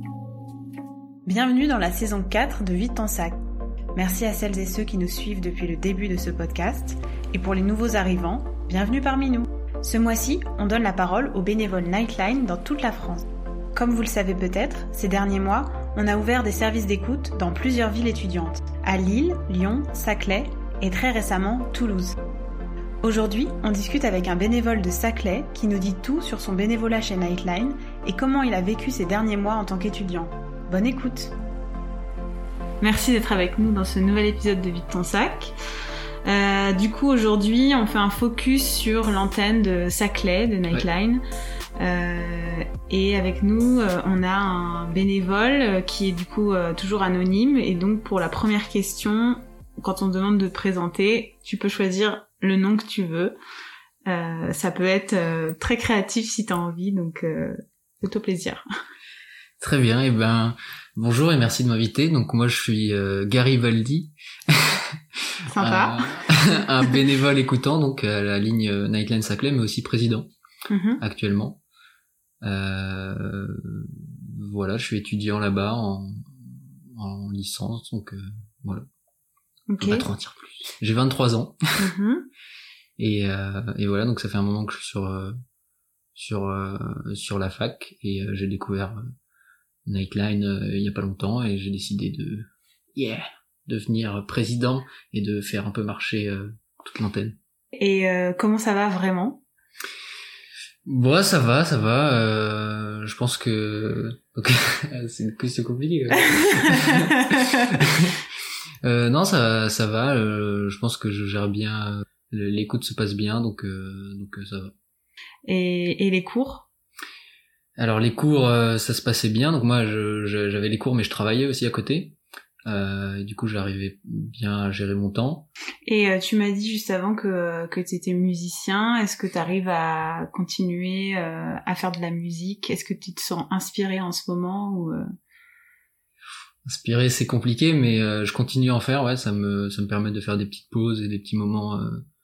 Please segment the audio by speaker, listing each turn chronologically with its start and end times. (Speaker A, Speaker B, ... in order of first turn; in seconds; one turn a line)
Speaker A: 1.3-3.4
Speaker A: 4.0-22.1
Speaker A: 23.0-31.4
Speaker A: 32.8-35.5
Speaker A: 36.2-41.2
Speaker A: 41.8-53.3
Speaker A: 54.1-58.6
Speaker B: 59.6-65.0
Speaker A: 65.5-66.2
Speaker B: 65.6-70.3
Speaker A: 70.7-71.0
Speaker B: 71.0-71.6
Speaker B: 72.4-78.9
Speaker A: 79.7-80.1
Speaker B: 79.8-81.6
Speaker A: 81.8-82.3
Speaker B: 83.0-85.3
Speaker B: 86.2-89.0
Speaker B: 89.9-97.4
Speaker A: 97.8-99.4
Speaker B: 100.9-108.2
Speaker A: 106.4-107.1
Speaker B: 108.8-114.7
Speaker A: 115.5-116.7
Speaker B: 117.8-125.5
Speaker A: 125.8-135.0
Speaker B: 136.7-142.0